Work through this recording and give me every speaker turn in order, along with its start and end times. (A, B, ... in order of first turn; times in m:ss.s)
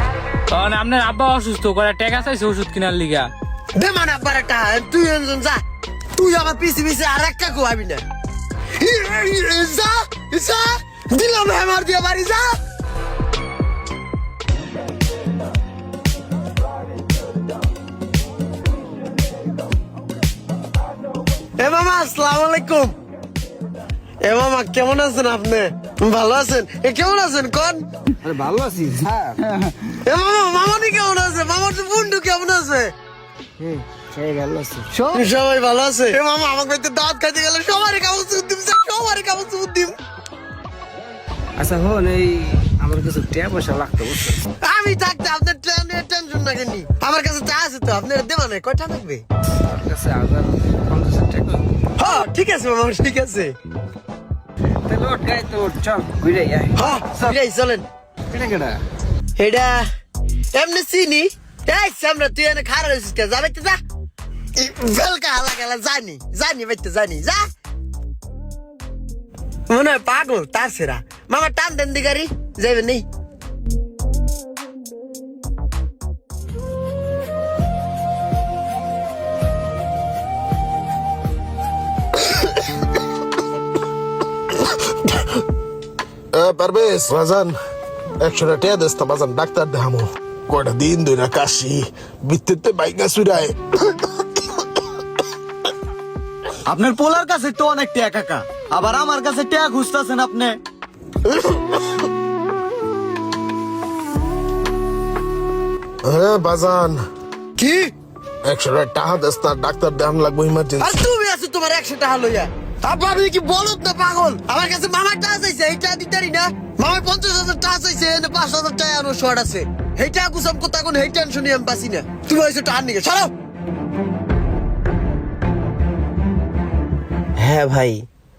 0:00.5-0:03.3 A
0:03.8-0:05.6 B
0:06.2-0:08.0 B
0:08.8-0:12.5 B
0:21.6-0:22.9 B
0:24.2-0:27.8 B
0:28.3-0:29.0 C
0:30.0-0:32.9 B
0:33.7-0:34.9 C
0:35.1-0:40.0 B
0:41.6-0:44.4 C
0:44.6-0:49.2 B
0:49.7-0:51.6 C
0:52.0-0:53.5 B
0:54.9-0:56.7 C
0:56.8-0:57.8 B
0:58.3-0:58.7 C
0:59.4-0:59.8 B
1:00.5-1:03.8 B
1:04.6-1:07.4 B
1:09.7-1:13.0 B
1:24.6-1:25.2 D
1:26.3-1:27.6 D
1:28.2-1:34.1 D
1:36.6-1:40.6 E
1:41.2-1:41.8 D
1:46.0-1:47.0 D
1:48.4-1:51.0 D
1:50.8-2:03.3 B
2:07.4-2:08.0 B